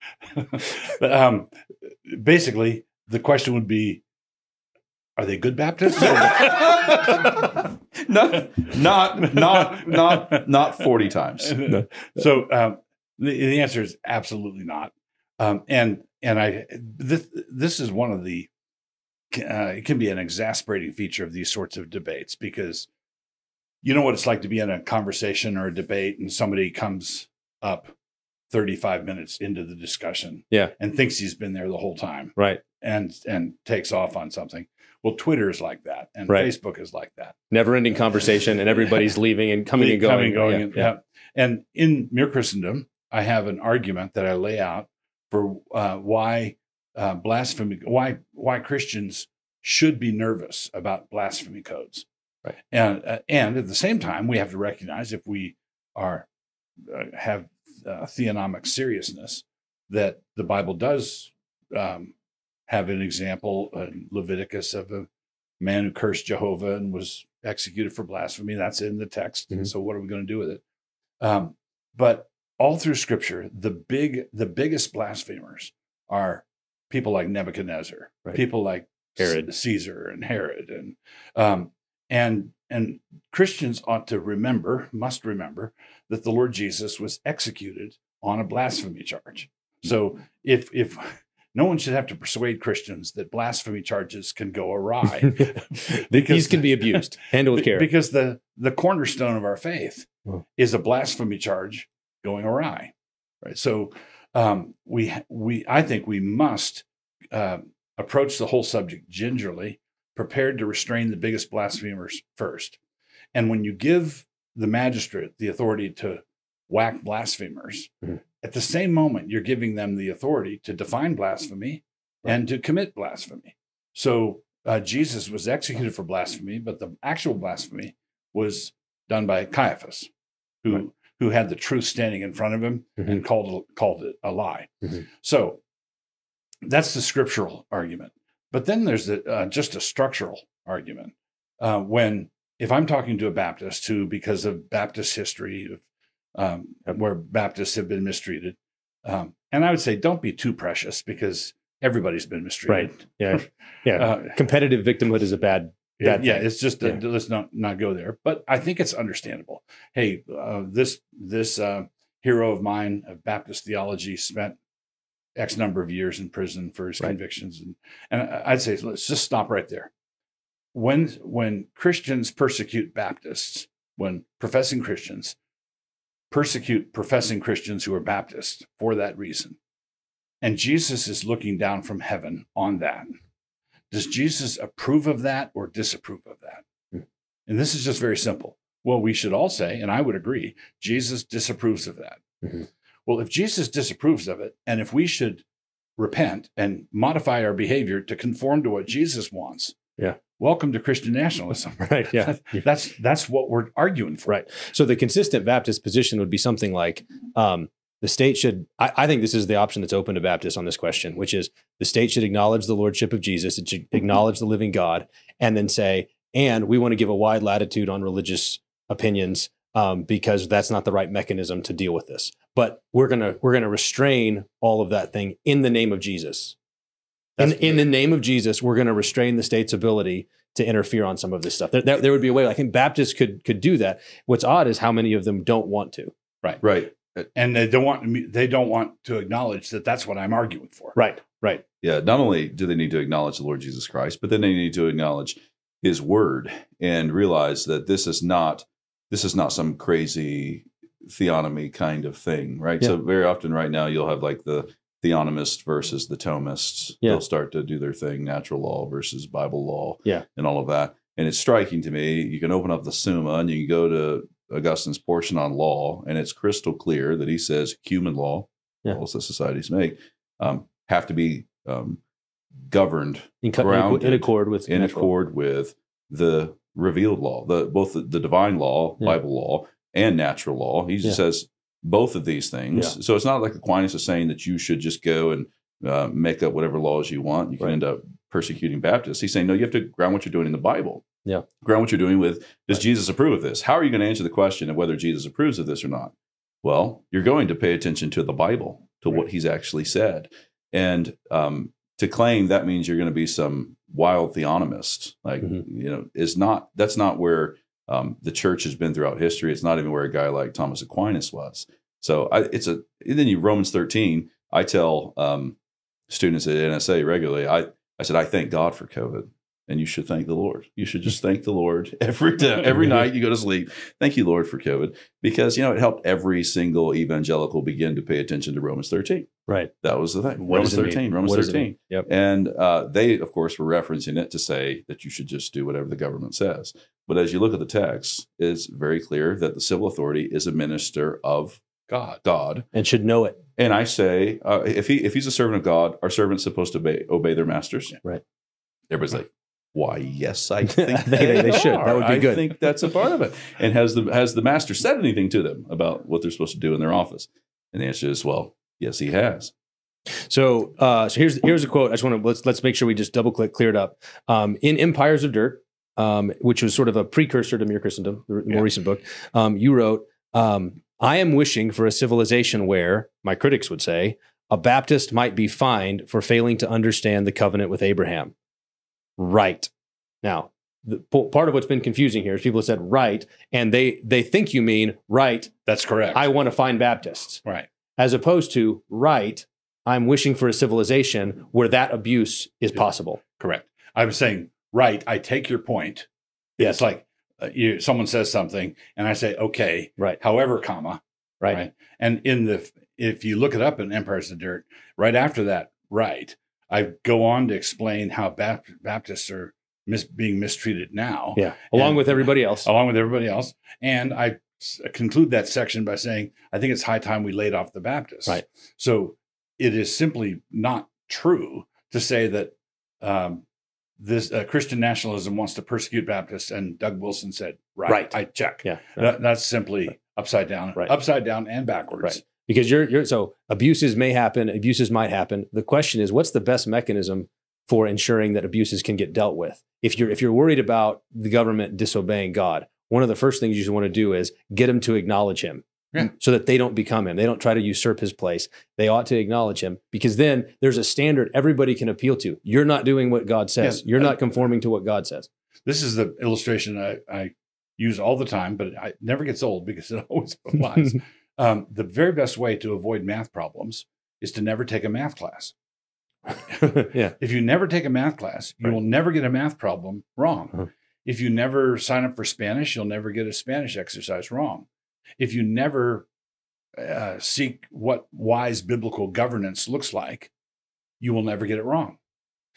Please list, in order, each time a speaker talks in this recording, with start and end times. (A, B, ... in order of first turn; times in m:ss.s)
0:00.4-0:01.5 A
0:02.0-0:04.0 A
0:05.2-0:07.5 A
0:06.4-0:11.5 B
0:09.3-0:10.6 A
0:11.4-0:18.5 A
0:19.3-0:22.9 A
0:23.8-0:27.9 A
0:28.5-0:37.4 A
0:37.5-0:40.9 C
0:39.8-0:52.0 A
0:52.7-0:56.3 A
0:56.9-1:02.1 A
1:02.7-1:05.1 A
1:05.6-1:10.6 A
1:11.2-1:52.8 A
1:19.2-1:19.5 C
1:35.3-1:37.9 C
1:53.3-2:10.1 A
2:10.6-2:15.6 A
2:16.6-2:25.8 A
2:26.3-2:33.2 A
2:32.7-2:37.0 C
2:33.9-2:34.4 A
2:36.0-2:44.6 A
2:45.4-2:49.9 A
2:50.7-2:55.4 A
2:56.3-2:59.6 A
3:00.4-3:03.1 A
3:03.9-3:06.6 A
3:07.5-3:12.2 A
3:13.1-3:15.4 A
3:16.0-3:19.8 A
3:20.4-3:24.3 A
3:21.9-3:22.6 C
3:24.3-3:46.6 C
3:47.4-3:47.8 A
3:47.4-3:56.1 C
3:56.6-3:57.3 B
3:57.3-4:01.0 A
4:00.9-4:01.6 C
4:01.8-4:32.0 B
4:32.7-4:51.0 B
4:33.4-4:35.1 C
4:51.6-5:15.6 B
5:16.1-5:29.3 B
5:29.8-5:41.6 B
5:30.4-5:32.1 C
5:41.9-5:42.2 A
5:42.2-5:42.6 B
5:42.7-5:43.4 C
5:43.6-5:48.0 B
5:48.9-5:59.5 B
5:50.7-5:52.5 C
6:00.3-6:18.3 C
6:19.2-6:19.7 C
6:20.2-6:25.5 C
6:25.6-6:26.2 A
6:26.1-6:27.4 C
6:28.0-6:33.2 C
6:33.4-6:36.1 A
6:36.6-7:03.4 A
6:51.4-6:52.7 C
7:04.0-7:12.2 A
7:07.9-7:09.1 C
7:12.0-7:35.3 C
7:33.6-7:34.2 A
7:35.6-7:45.5 A
7:46.6-7:47.1 C
7:46.6-7:54.6 A
7:55.2-7:56.0 A
7:56.8-8:00.3 A
8:01.0-8:02.0 A